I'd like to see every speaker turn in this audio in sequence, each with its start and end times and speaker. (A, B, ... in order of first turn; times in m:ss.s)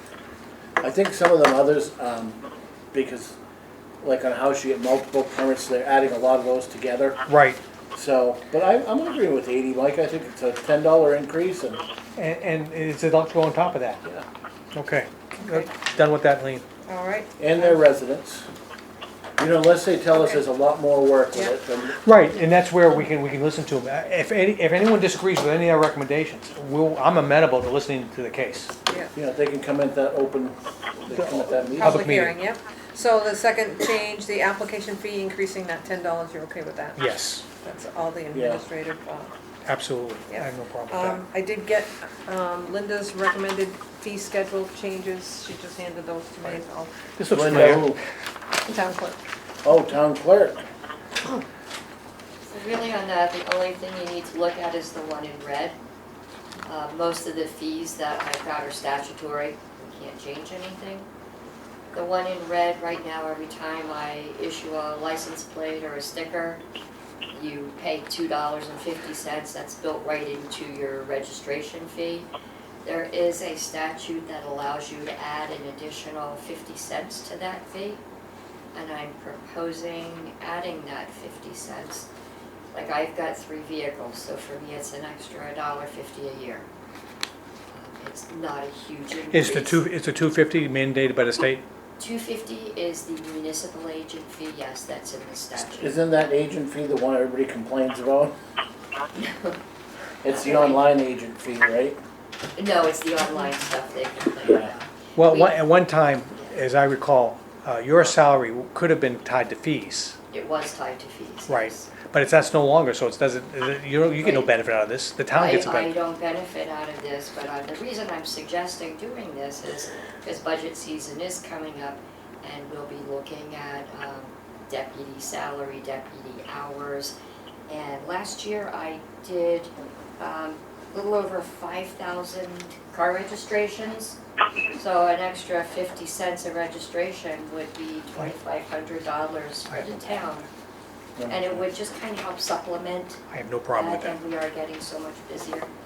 0:00.8-0:03.4 A
0:04.0-0:07.2 A
0:07.3-0:07.6 B
0:07.9-0:11.8 A
0:12.2-0:14.0 B
0:14.7-0:16.6 B
0:15.4-0:15.7 C
0:16.9-0:17.8 C
0:17.4-0:18.5 A
0:19.4-0:22.0 A
0:20.1-0:20.4 C
0:22.0-0:28.7 B
0:29.1-0:32.1 A
0:31.7-0:37.0 C
0:31.8-0:32.4 B
0:37.0-0:37.4 B
0:37.6-0:39.3 C
0:38.3-0:38.6 A
0:39.6-0:41.2 B
0:40.3-0:47.0 C
0:47.2-0:48.0 B
0:47.3-0:48.0 A
0:48.6-0:49.2 C
0:49.6-0:50.6 A
0:52.4-0:55.8 D
0:56.6-1:01.1 D
1:01.9-1:06.6 D
1:07.3-1:12.3 D
1:12.8-1:18.0 D
1:18.7-1:22.1 D
1:22.7-1:26.7 D
1:27.7-1:29.8 D
1:29.3-1:31.6 B
1:32.0-1:35.9 D
1:35.6-1:38.3 A
1:39.2-1:39.6 D
1:40.2-1:42.0 A
1:40.3-1:40.8 D
1:42.6-1:45.5 D
1:45.2-1:50.2 B
1:50.3-1:51.9 D
1:51.5-1:55.9 B
1:54.2-1:54.5 D
1:55.3-2:07.1 D
2:07.7-2:14.2 D
2:14.7-2:20.5 D
2:19.7-2:20.3 B
2:21.2-2:21.6 A
2:21.3-2:23.2 D
2:23.3-2:24.2 B
2:23.7-2:25.7 D